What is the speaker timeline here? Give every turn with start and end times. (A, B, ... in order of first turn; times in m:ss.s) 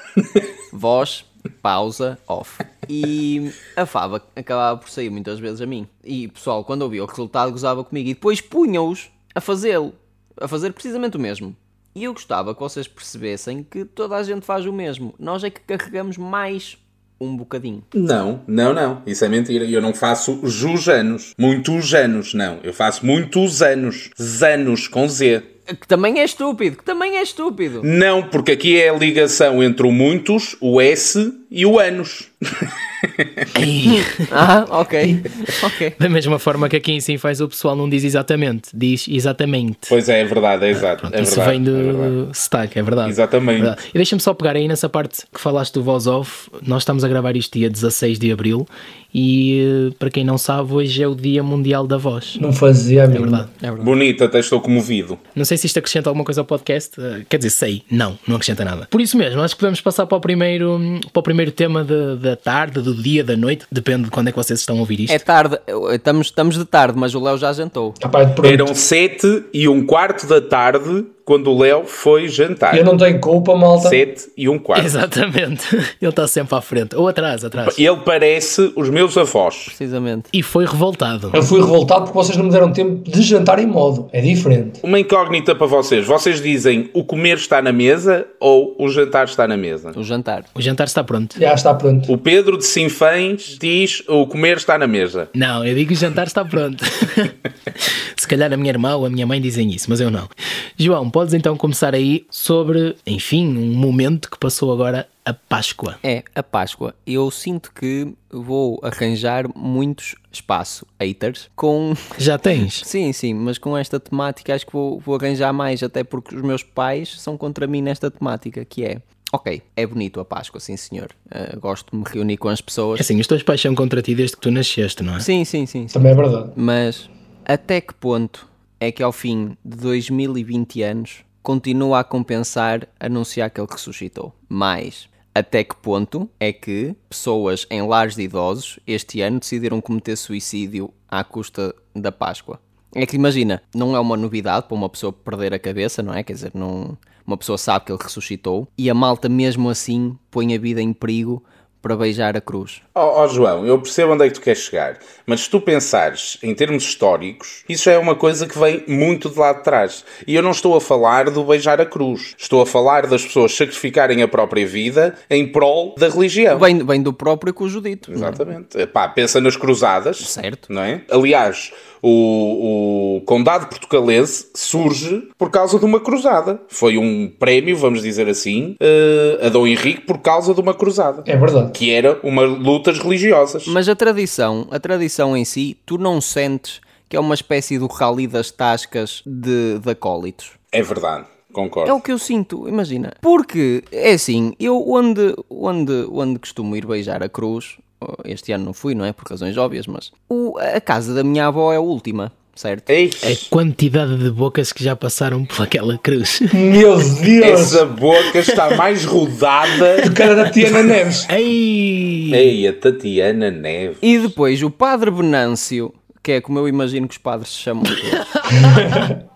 0:00.2-0:00.4 A
0:00.7-0:17.9 B
0:17.9-0:25.5 A
0:25.7-0:27.9 B
0:27.8-0:33.4 A
0:33.5-0:34.3 C
0:33.8-0:36.0 B
0:36.0-0:39.9 C
0:39.9-0:42.1 A
0:40.7-0:52.4 C
0:43.0-0:43.8 A
0:52.4-0:53.5 D
0:53.1-0:53.5 C
0:53.6-0:53.9 B
0:53.8-0:55.2 A
0:55.3-1:05.2 C
1:05.1-1:08.0 B
1:08.0-1:08.7 D
1:08.4-1:12.9 A
1:12.7-1:14.0 D
1:13.8-1:15.0 A
1:14.7-1:17.8 C
1:17.6-1:19.7 A
1:19.7-1:20.3 B
1:20.3-1:21.4 C
1:21.3-1:24.8 D
1:24.8-1:30.0 A
1:29.9-1:30.5 B
1:30.5-1:31.4 C
1:31.4-1:32.1 D
1:32.1-1:35.3 A
1:35.3-1:46.0 C
1:46.0-1:52.2 B
1:52.2-1:52.8 C
1:52.8-2:03.0 B
2:03.0-2:05.2 C
2:05.2-2:32.8 B
2:05.9-2:06.5 D
2:32.9-2:46.7 A
2:46.5-2:48.5 B
2:48.1-3:03.8 A
2:50.2-2:50.6 B
3:01.2-3:01.8 D
3:03.6-3:10.6 B
3:10.7-3:12.0 A
3:11.8-3:22.9 B
3:22.9-3:23.5 A
3:23.2-3:26.6 C
3:26.5-3:27.8 D
3:27.4-3:30.2 A
3:30.0-3:31.3 D
3:31.2-3:32.5 C
3:32.3-3:34.2 A
3:34.0-3:38.3 B
3:38.1-3:38.9 C
3:38.6-3:39.1 D